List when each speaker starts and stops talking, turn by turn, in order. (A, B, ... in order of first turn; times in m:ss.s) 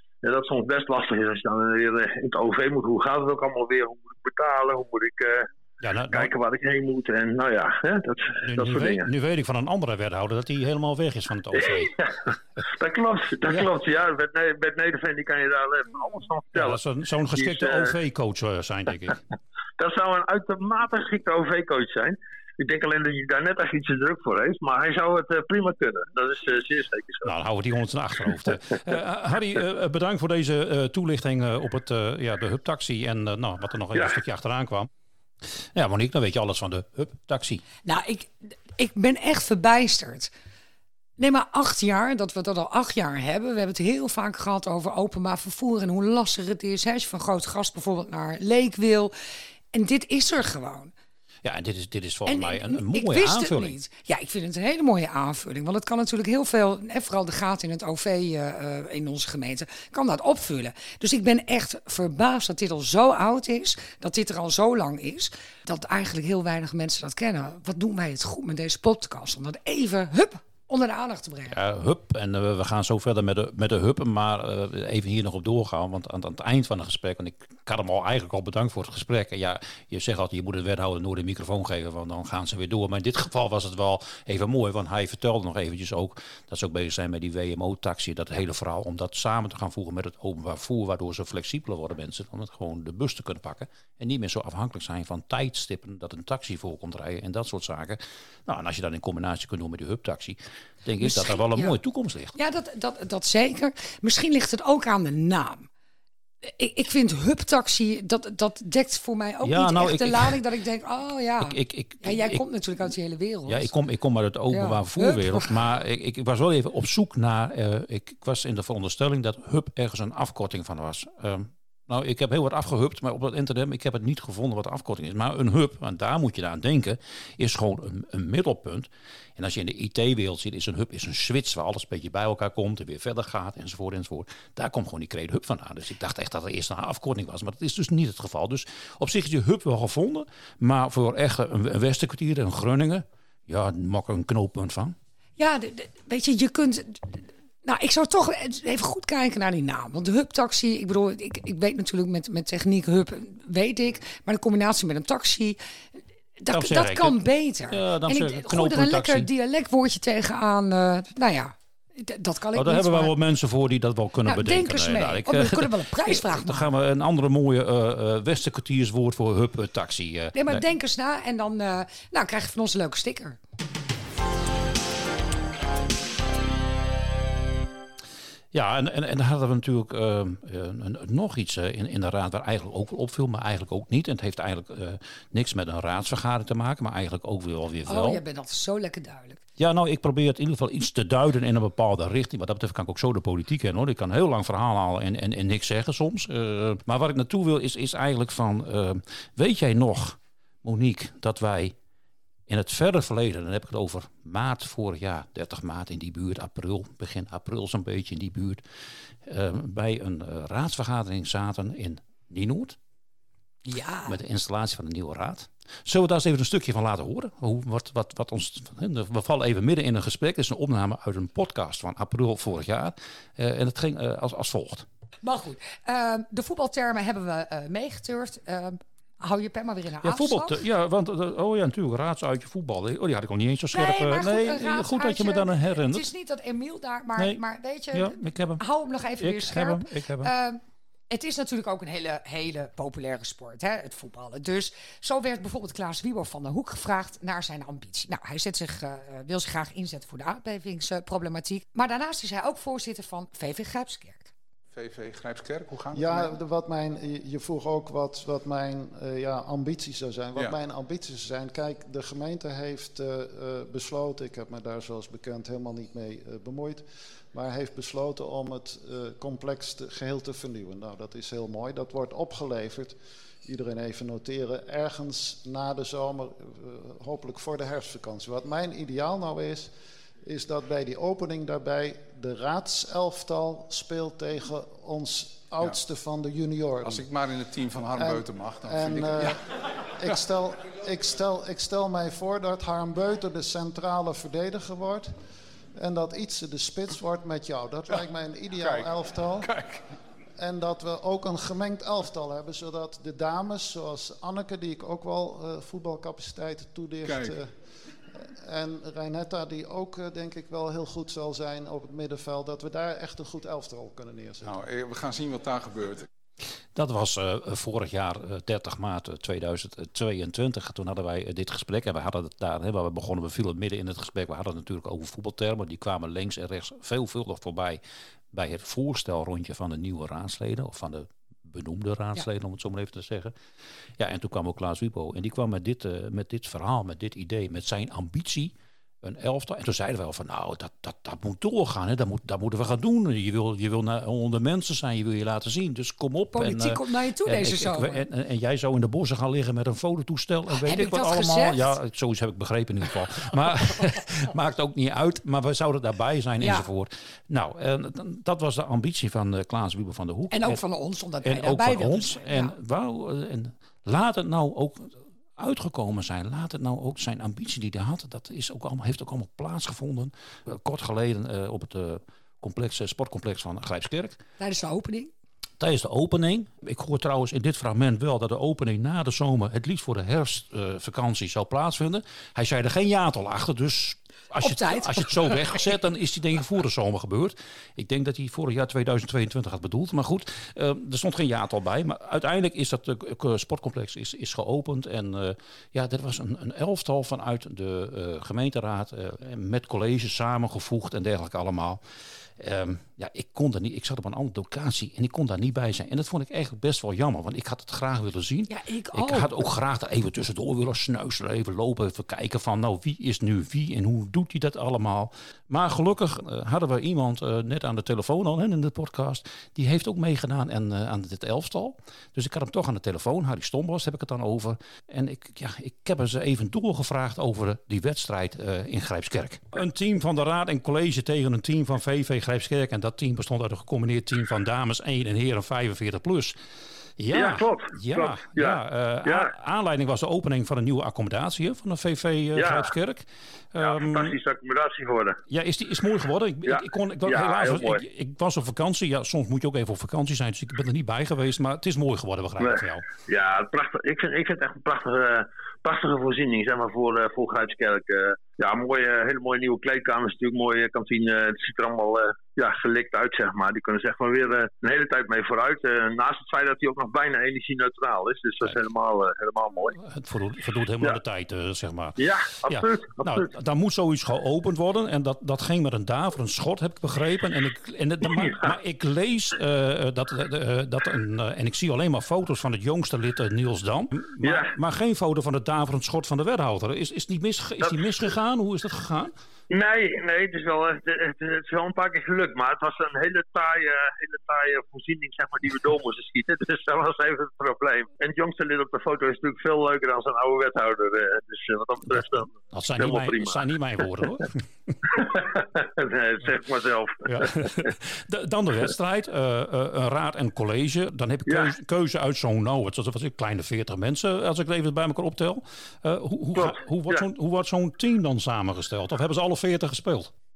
0:00.2-0:05.5 A
0:05.8-0:06.3 B
0:06.1-0:09.1 A
0:08.5-0:11.9 B
0:11.6-0:16.8 A
0:16.6-0:19.2 B
0:17.4-0:17.9 A
0:19.8-0:27.3 A
0:27.2-0:34.9 B
0:35.8-0:37.6 B
0:37.8-0:40.3 C
0:41.2-0:49.1 C
0:49.7-0:50.9 C
0:51.4-0:53.8 B
0:52.3-1:11.6 C
1:11.5-1:42.4 B
1:41.0-1:41.8 C
1:42.4-1:45.7 C
1:46.4-1:53.8 C
1:49.4-1:50.4 B
1:51.4-1:52.4 B
1:53.5-2:25.0 B
1:54.5-1:55.5 C
2:25.4-2:35.6 C
2:36.4-2:43.1 C
2:36.5-2:39.3 B
2:42.5-2:50.6 B
2:44.3-2:46.7 C
2:50.4-2:53.4 C
2:58.5-3:08.2 B
3:07.9-3:09.4 C
3:09.6-3:21.8 B
3:22.5-3:28.6 B
3:29.2-3:32.8 B
3:33.6-3:34.2 C
3:34.0-3:44.9 B
3:45.2-3:50.6 C
3:50.0-3:56.1 B
3:53.7-4:14.3 C
3:57.9-3:58.6 B
3:59.2-4:00.3 B
4:14.7-4:16.3 D
4:15.9-4:39.7 E
4:40.2-4:47.1 E
4:46.8-4:49.4 D
4:48.0-4:49.4 E
4:50.0-4:55.1 E
4:55.8-4:59.5 E
4:58.6-4:58.9 D
4:59.4-4:59.8 D
5:00.4-5:07.5 E
5:07.0-5:07.4 D
5:08.1-5:14.6 E
5:14.4-5:16.1 D
5:16.8-5:27.8 B
5:28.3-5:33.4 B
5:34.0-6:00.6 B
5:46.3-5:48.0 C
5:50.6-5:51.8 C
5:56.4-5:56.7 C
6:00.3-6:02.6 C
6:01.2-6:14.2 B
6:14.4-6:15.1 C
6:15.6-6:41.8 B
6:24.4-6:25.6 C
6:42.4-7:16.4 B
6:48.5-6:49.5 C
7:17.0-7:24.2 B
7:17.1-7:19.3 A
7:22.4-7:22.7 A
7:23.6-7:25.2 A
7:25.3-7:32.9 B
7:26.5-7:27.8 A
7:32.4-7:49.8 A
7:49.8-8:09.1 B
7:52.0-7:53.3 A
8:04.2-8:04.5 A
8:09.5-8:23.4 A
8:21.9-8:24.9 B
8:24.9-8:27.6 A
8:27.0-8:40.1 B
8:31.3-8:31.5 A
8:36.4-8:37.0 A